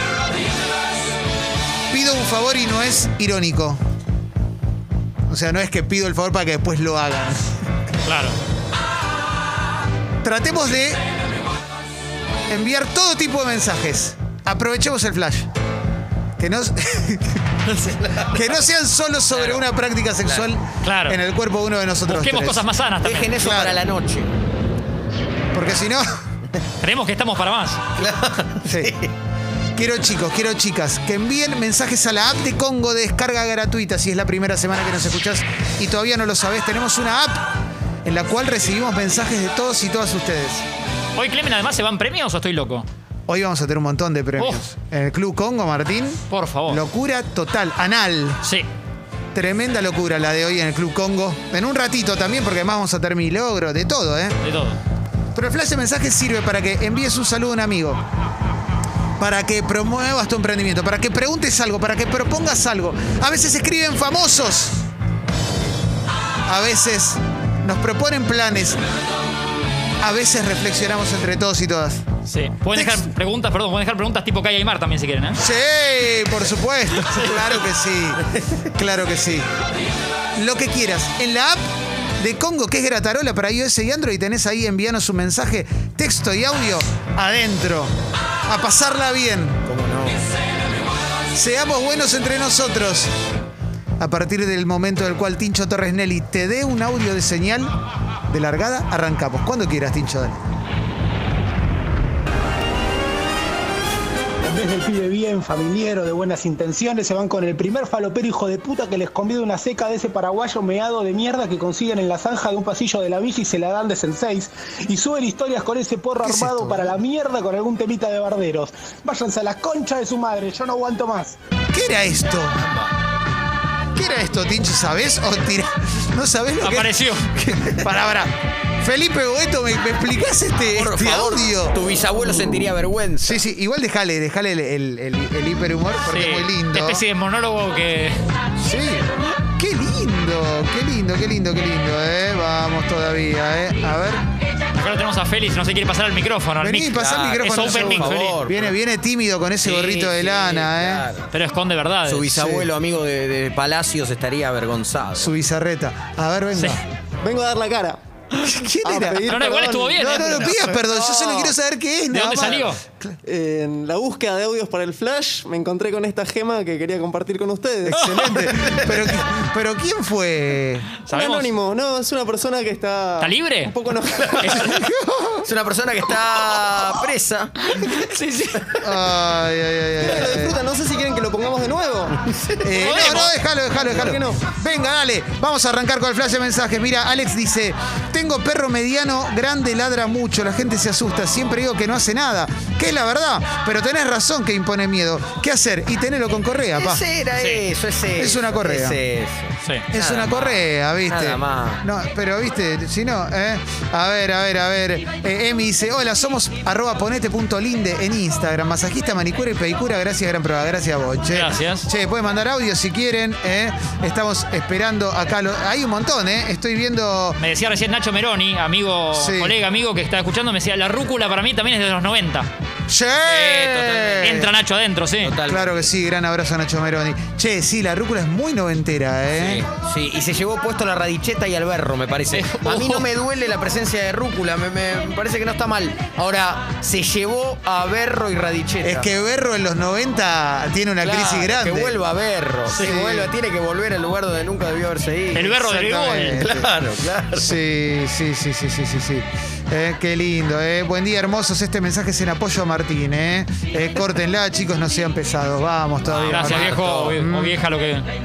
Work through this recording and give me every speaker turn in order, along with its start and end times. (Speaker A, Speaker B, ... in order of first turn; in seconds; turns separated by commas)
Speaker A: 1.9-3.8, Speaker A: 5.3-7.5, Speaker B: 8.1-8.3, Speaker A: 10.2-11.0, Speaker A: 12.5-15.5, Speaker A: 16.4-17.4, Speaker C: 17.8-18.4, Speaker A: 18.3-22.6, Speaker C: 19.3-19.6, Speaker B: 20.8-21.2, Speaker B: 22.1-23.5, Speaker C: 23.0-24.3, Speaker A: 23.4-23.8, Speaker A: 25.5-26.0, Speaker B: 26.8-27.8, Speaker C: 27.9-29.1, Speaker A: 28.6-28.9, Speaker A: 29.7-37.5, Speaker A: 38.0-40.6, Speaker B: 41.1-42.9, Speaker A: 43.3-48.4, Speaker B: 46.3-46.8, Speaker A: 49.3-54.4, Speaker B: 54.4-54.8, Speaker A: 55.3-58.0, Speaker A: 59.2-64.8, Speaker A: 66.5-68.8, Speaker A: 70.0-72.0, Speaker B: 72.3-75.4, Speaker A: 72.7-73.1, Speaker A: 75.3-79.5, Speaker A: 80.4-81.6, Speaker A: 82.2-87.9, Speaker A: 88.5-89.6, Speaker C: 89.7-90.2, Speaker A: 91.3-93.1, Speaker A: 94.0-97.7, Speaker A: 98.3-100.4, Speaker D: 104.4-121.4, Speaker A: 116.2-116.9, Speaker A: 121.7-122.7, Speaker A: 123.9-131.8, Speaker B: 126.6-127.2, Speaker C: 130.7-133.4, Speaker A: 133.2-137.0, Speaker B: 136.1-138.2, Speaker A: 138.6-139.0, Speaker A: 139.6-144.2, Speaker B: 144.8-148.4, Speaker A: 146.6-151.0, Speaker C: 146.9-148.7, Speaker B: 149.6-150.3, Speaker C: 150.2-151.3, Speaker B: 151.3-152.3, Speaker C: 152.0-155.3, Speaker A: 152.3-152.7, Speaker A: 155.2-156.8, Speaker E: 157.2-158.0, Speaker A: 158.4-159.2, Speaker E: 158.8-160.7, Speaker B: 159.3-160.5, Speaker A: 160.0-163.2, Speaker C: 160.1-161.5, Speaker B: 162.1-162.8, Speaker E: 163.2-168.6, Speaker A: 167.9-170.9, Speaker B: 171.1-171.5, Speaker E: 171.1-174.8, Speaker B: 173.2-173.7, Speaker A: 174.6-175.4, Speaker C: 175.4-178.1, Speaker A: 178.8-180.6, Speaker E: 180.0-184.4, Speaker A: 182.6-197.0, Speaker B: 182.8-183.3, Speaker C: 196.7-201.8, Speaker B: 197.3-197.6, Speaker A: 198.2-199.0, Speaker A: 199.9-217.4, Speaker B: 211.3-211.8, Speaker B: 217.4-222.5, Speaker A: 219.1-219.5, Speaker A: 222.9-224.5, Speaker C: 223.2-224.5, Speaker B: 224.2-225.3, Speaker C: 225.2-225.9, Speaker A: 225.4-229.6, Speaker C: 229.3-239.1, Speaker B: 232.3-233.1, Speaker A: 238.8-242.0, Speaker C: 241.0-245.6, Speaker A: 242.7-243.3, Speaker B: 242.7-243.0, Speaker B: 245.3-246.5, Speaker A: 245.6-246.7, Speaker C: 246.2-247.6, Speaker A: 247.3-257.6, Speaker C: 256.1-257.2, Speaker B: 256.2-258.0